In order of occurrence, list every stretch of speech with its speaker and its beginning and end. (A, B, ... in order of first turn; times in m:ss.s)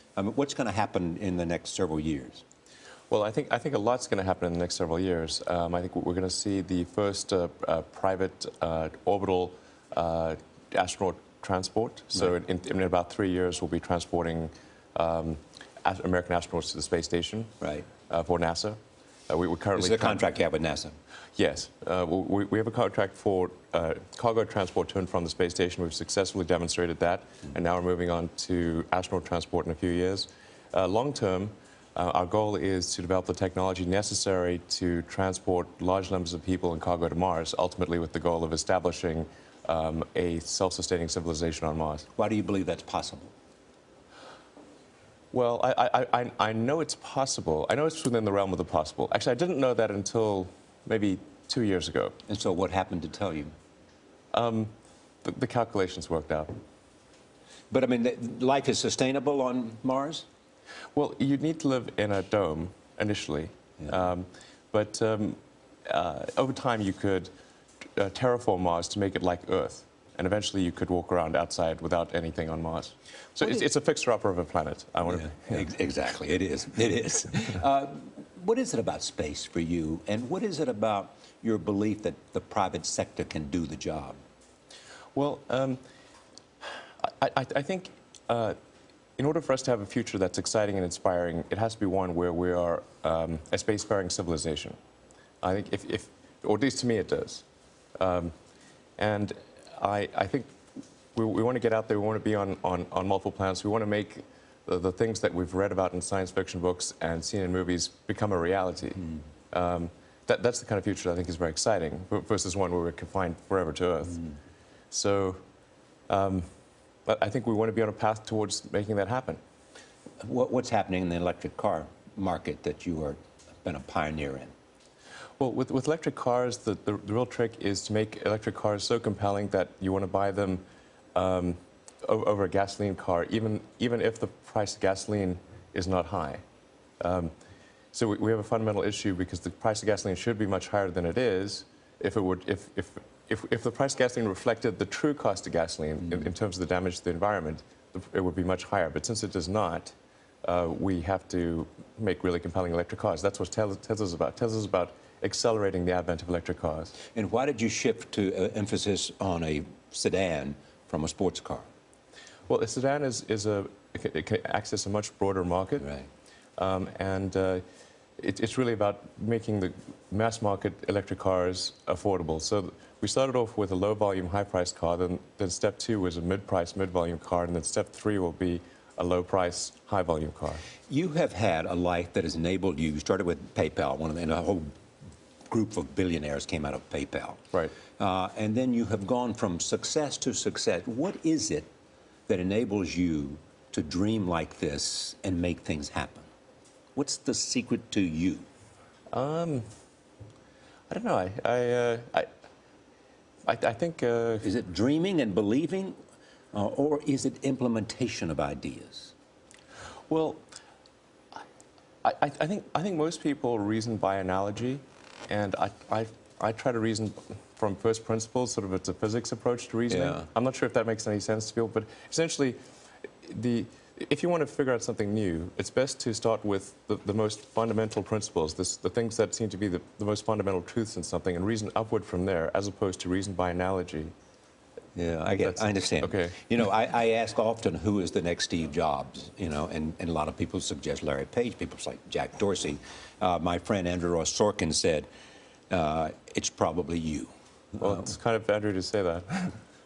0:00.2-0:02.4 A
0:03.1-0:17.5 B
0:17.6-0:17.9 A
0:18.1-0:20.2 B
0:19.8-0:21.0 A
0:21.4-0:42.0 B
0:42.2-0:43.3 A
0:45.3-0:52.2 B
0:52.3-0:53.5 A
0:54.3-0:54.7 B
0:55.2-0:56.5 B
0:57.7-1:00.3 A
1:00.9-1:07.3 B
1:08.0-1:15.6 B
1:15.1-1:24.2 A
1:25.1-1:25.8 B
1:27.0-1:28.6 B
1:29.2-1:34.8 B
1:35.4-1:37.4 B
1:38.0-1:38.3 B
1:39.0-1:40.6 B
1:41.1-1:54.2 B
1:54.9-1:55.4 B
1:56.1-1:56.4 B
1:57.1-1:59.4 B
2:00.2-2:04.5 A
2:05.4-2:10.6 B
2:11.2-2:16.4 B
2:17.0-2:17.3 B
2:17.9-2:36.9 B
2:37.1-2:41.7 A
2:42.5-2:45.9 B
2:45.8-2:46.1 A
2:46.6-2:47.6 B
2:48.2-3:00.6 B
3:00.9-3:04.7 A
3:05.5-3:07.4 A
3:08.0-3:11.7 A
3:12.3-3:16.3 A
3:16.9-3:18.5 A
3:19.1-3:19.7 B
3:20.9-3:22.3 B
3:23.5-3:24.4 B
3:24.4-3:26.0 A
3:26.5-3:29.1 A
3:30.1-3:30.4 B
3:32.0-3:42.6 B
3:39.9-3:40.2 A
3:43.2-3:54.1 B
3:54.9-4:05.1 A
3:55.4-3:56.4 B
4:05.7-4:08.0 A
4:07.8-4:09.6 B